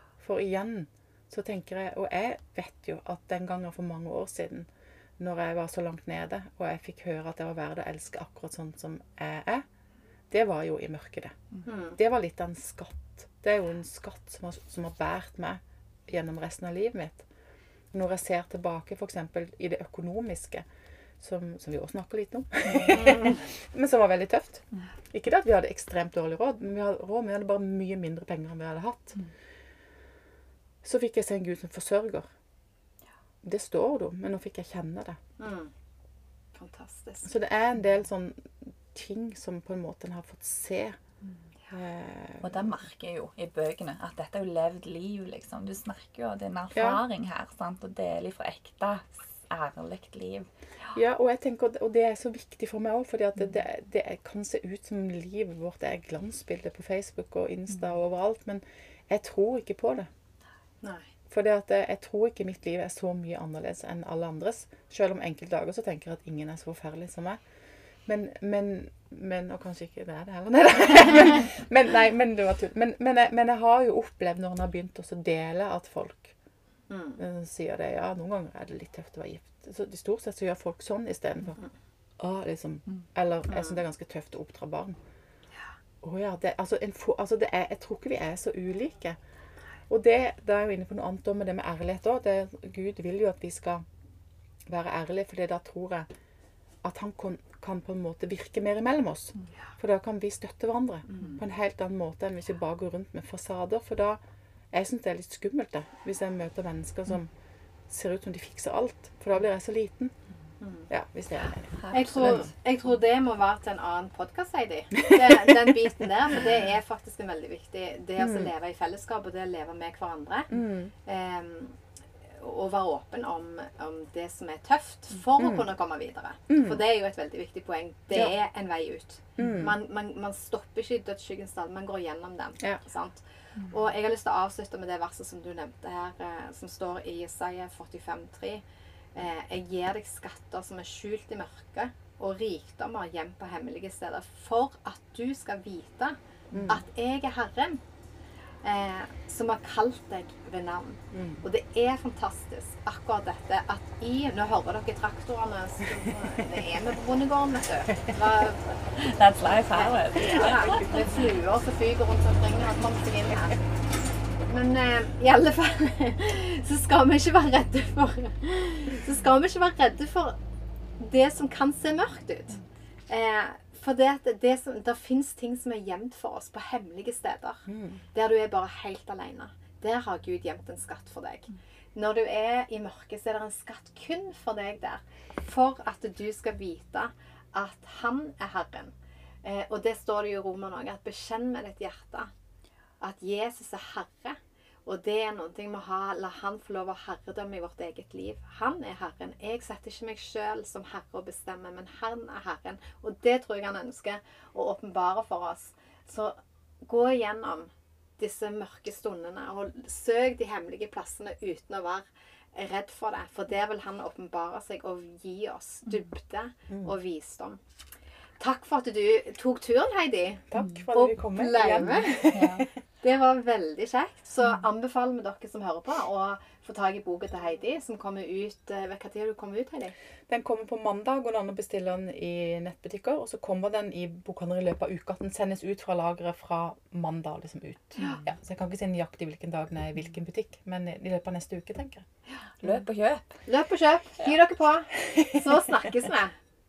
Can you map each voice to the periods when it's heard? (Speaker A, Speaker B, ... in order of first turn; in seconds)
Speaker A: 0.2-9.7, 10.3-17.3, 17.9-20.7, 21.2-29.2, 30.8-32.3, 33.4-35.2, 37.2-41.0, 41.7-42.8, 46.7-47.0, 50.9-60.1, 61.3-67.4, 68.1-76.3, 77.2-81.6, 82.2-85.0, 86.0-89.2, 89.9-93.8, 94.7-96.1, 96.8-104.2, 104.7-107.3, 107.9-110.2, 110.9-112.5, 115.0-115.8, 118.2-118.5, 120.5-120.9, 125.4-125.7, 126.5-126.8, 129.4-129.8, 146.5-146.8, 151.1-151.4, 177.7-178.0, 220.5-222.7, 230.3-242.1, 245.1-245.3
Speaker B: 11.7-12.0, 23.0-23.4, 35.4-35.7, 36.5-37.3, 60.8-61.1, 76.9-77.2, 83.5-83.8, 110.6-110.9, 111.9-121.8, 122.3-138.6, 139.2-147.8, 148.6-163.7, 164.5-170.4, 171.0-172.6, 173.1-192.3, 193.0-217.6, 218.4-222.2, 223.0-229.9, 243.5-246.4
Speaker C: 42.4-50.5, 111.8-112.5, 159.0-161.1, 220.6-220.9, 222.3-222.7, 242.6-243.4